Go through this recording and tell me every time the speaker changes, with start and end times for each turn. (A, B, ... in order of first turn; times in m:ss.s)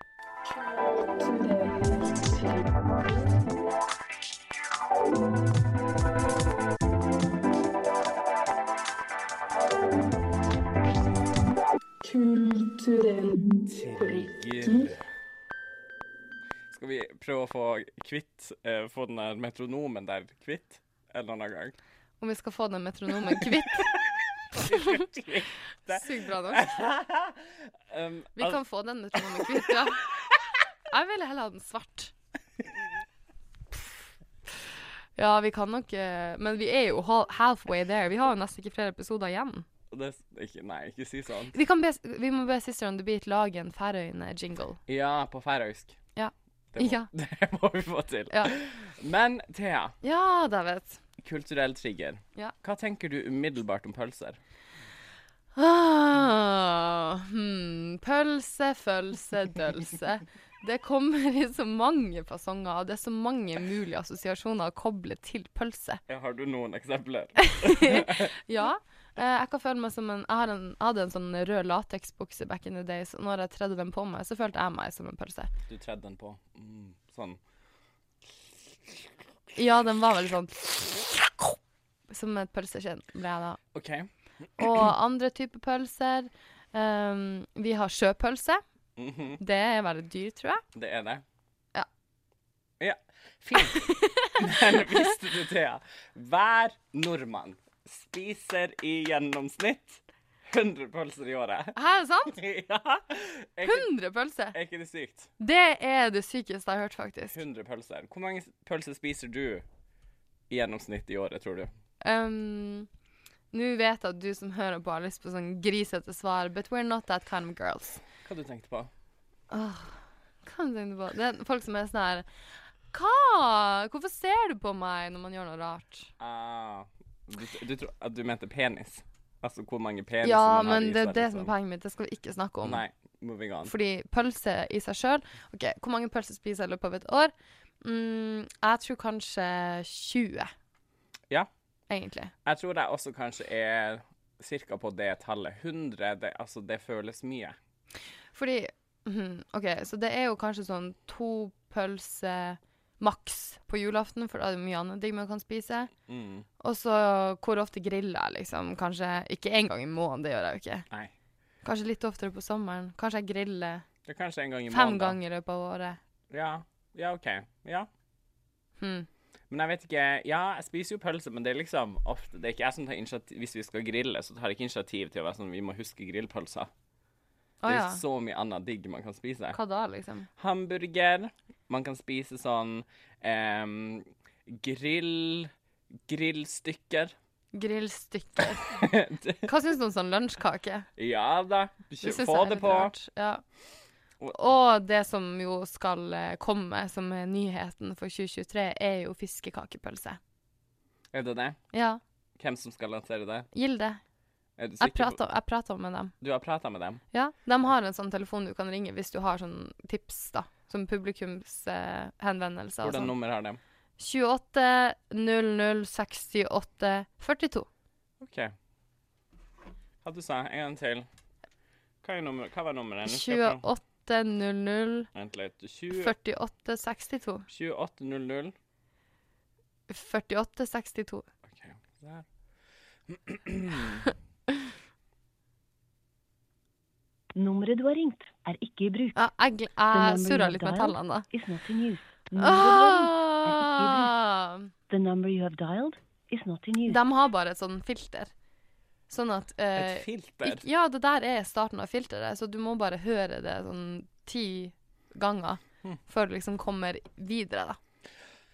0:00.4-0:03.2 A
0:12.0-0:14.9 A
0:13.6-0:15.0 B
0:16.7-0:21.7 B
0:22.2-0:23.9 C
0:23.4-0:23.8 B
0:24.5-0:28.6 B
0:24.6-0:25.0 C
0:25.9-0:26.8 C
0:28.4-0:30.0 C
0:29.1-0:29.8 B
0:30.9-0:32.1 C
0:35.2-0:39.6 C
0:39.9-0:41.5 B
0:41.5-0:44.8 C
0:44.9-0:46.0 B
0:46.1-0:47.1 C
0:46.7-0:49.9 B
0:48.3-0:48.6 C
0:50.0-0:51.0 C
0:51.2-0:54.4 B
0:55.6-1:06.0 C
1:06.1-1:08.3 B
1:07.4-1:15.5 C
1:15.7-1:17.4 B
1:19.5-1:21.6 C
1:22.1-1:23.6 C
1:23.7-1:24.1 B
1:24.6-1:28.6 C
1:29.0-1:29.4 B
1:29.4-1:30.6 C
1:30.7-1:31.2 B
1:32.8-1:41.8 B
1:33.5-1:35.1 C
1:41.8-1:42.4 C
1:42.3-1:43.9 B
1:43.6-1:44.5 C
1:44.5-1:45.3 B
1:45.4-1:47.4 C
1:47.3-1:49.6 B
1:50.5-1:51.7 B
1:52.0-1:52.9 C
1:53.5-1:58.0 C
1:58.2-1:58.9 B
1:59.5-2:02.3 C
2:02.9-2:06.1 C
2:06.2-2:11.5 B
2:10.2-2:12.8 C
2:12.6-2:13.7 B
2:13.6-2:20.5 C
2:21.9-2:22.3 C
2:22.4-2:27.6 B
2:28.3-2:35.9 C
2:36.1-2:36.4 B
2:36.6-2:40.8 C
2:41.6-2:43.8 C
2:44.0-2:45.2 B
2:44.7-2:46.0 C
2:46.3-2:47.9 B
2:48.8-2:49.1 C
2:49.5-2:56.7 B
2:57.6-2:58.0 C
2:57.7-2:59.6 B
2:59.5-3:00.3 C
3:00.4-3:05.5 B
3:06.1-3:07.1 B
3:07.5-3:08.7 C
3:08.7-3:09.5 B
3:09.4-3:10.9 C
3:11.0-3:12.9 B
3:12.0-3:13.4 C
3:14.3-3:20.2 C
3:21.1-3:21.6 B
3:21.7-3:22.0 C
3:22.4-3:23.5 B
3:23.5-3:24.0 C
3:24.6-3:25.2 B
3:24.8-3:26.1 C
3:26.2-3:27.0 B
3:27.1-3:33.1 C
3:32.8-3:33.6 B
3:34.0-3:37.7 C
3:38.2-3:38.5 B
3:40.0-3:41.1 B
3:42.0-3:43.6 B
3:43.0-3:45.1 C
3:45.1-3:46.1 B
3:45.9-3:47.5 C
3:47.5-3:48.5 B
3:49.9-3:51.2 C
3:51.5-3:52.2 B
3:53.1-3:54.1 B
3:57.3-3:59.2 D
3:59.2-4:01.2 C
3:59.9-4:04.1 D
4:02.4-4:04.7 C
4:04.9-4:07.0 D
4:06.9-4:08.3 C
4:09.1-4:17.8 C
4:09.8-4:10.6 B